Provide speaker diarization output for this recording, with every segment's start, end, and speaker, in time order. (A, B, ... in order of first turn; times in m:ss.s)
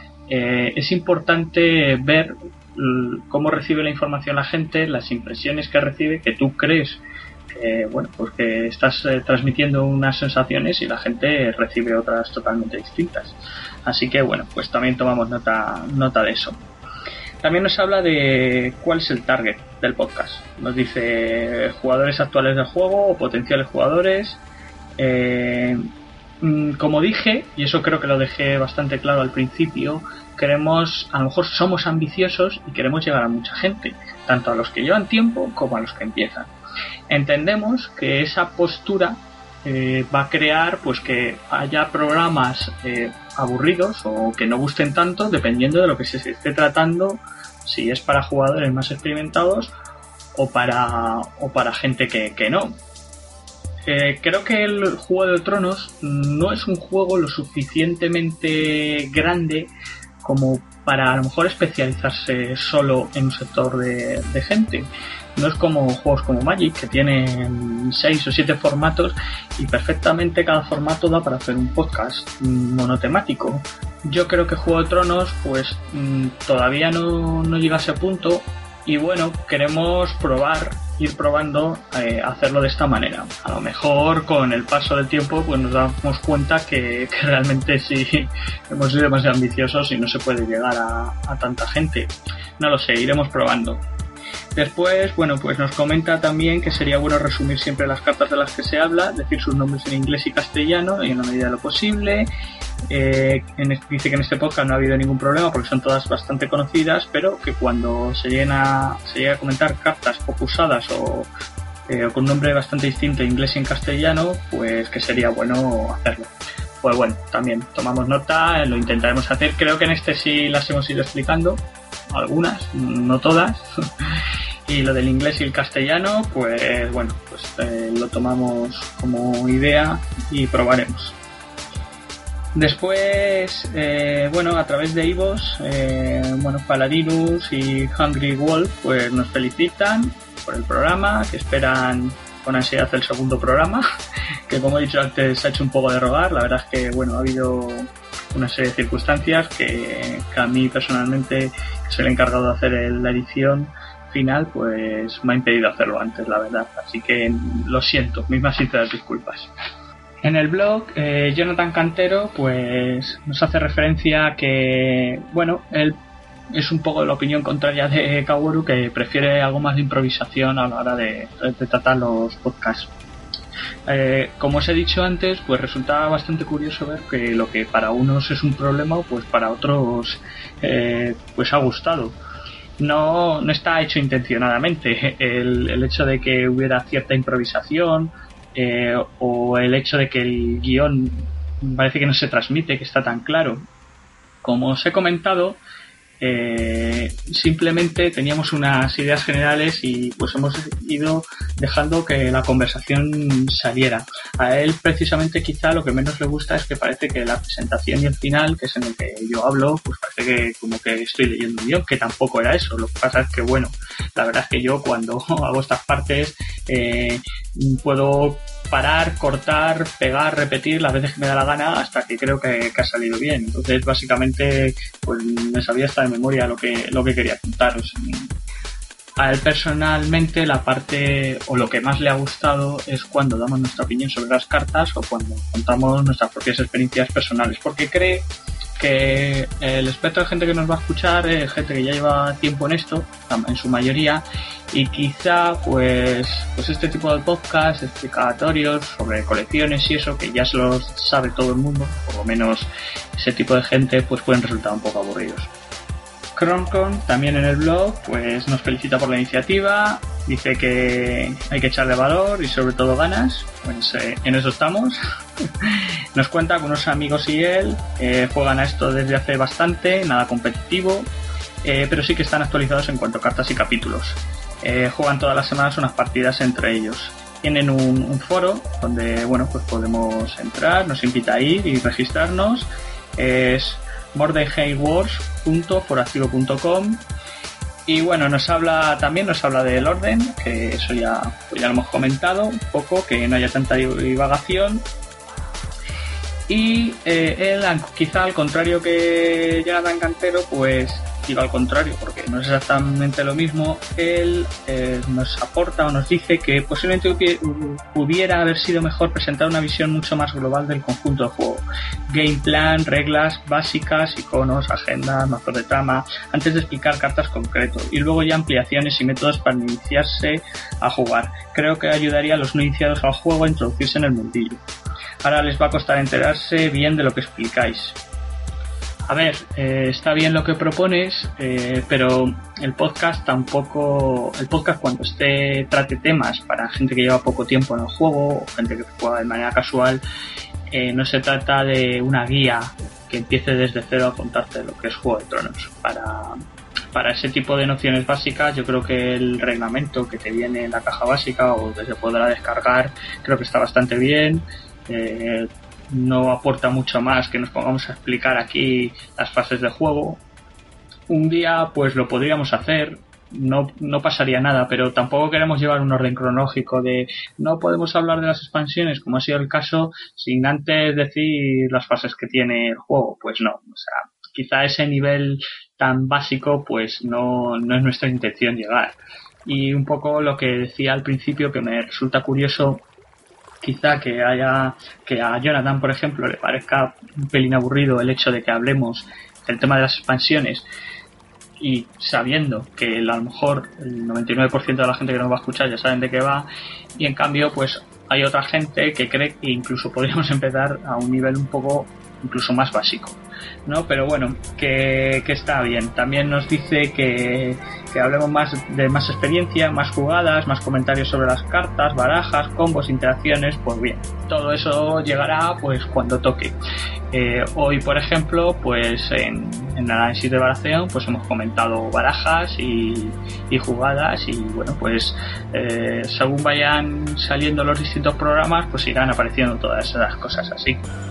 0:00.3-0:16.6 A
0:17.4-0:24.4 A
0:25.0-0:25.8 A
0:26.4-0:36.5 A
0:37.1-0:49.7 A
0:50.4-0:52.8 A
0:53.9-1:33.8 A
1:34.6-1:42.3 A
1:42.9-1:51.3 A
1:51.9-2:03.7 A
2:04.7-2:11.2 A
2:12.5-2:23.8 A
2:24.5-2:39.5 A
2:40.2-2:46.0 A
2:46.5-2:52.9 A
2:53.9-3:02.2 A
3:02.8-3:13.6 A
3:14.4-3:15.6 A
3:16.2-3:48.3 A
3:49.2-4:15.5 A
4:16.4-4:31.1 A
4:31.6-4:47.0 A
4:47.9-4:54.9 A
4:56.5-5:24.6 A
5:25.2-5:28.0 A
5:29.1-5:40.0 A
5:40.7-5:46.4 A
5:46.9-6:00.2 A
6:01.1-6:22.8 A
6:23.6-6:30.7 A
6:31.6-6:56.6 A
6:57.1-7:10.8 A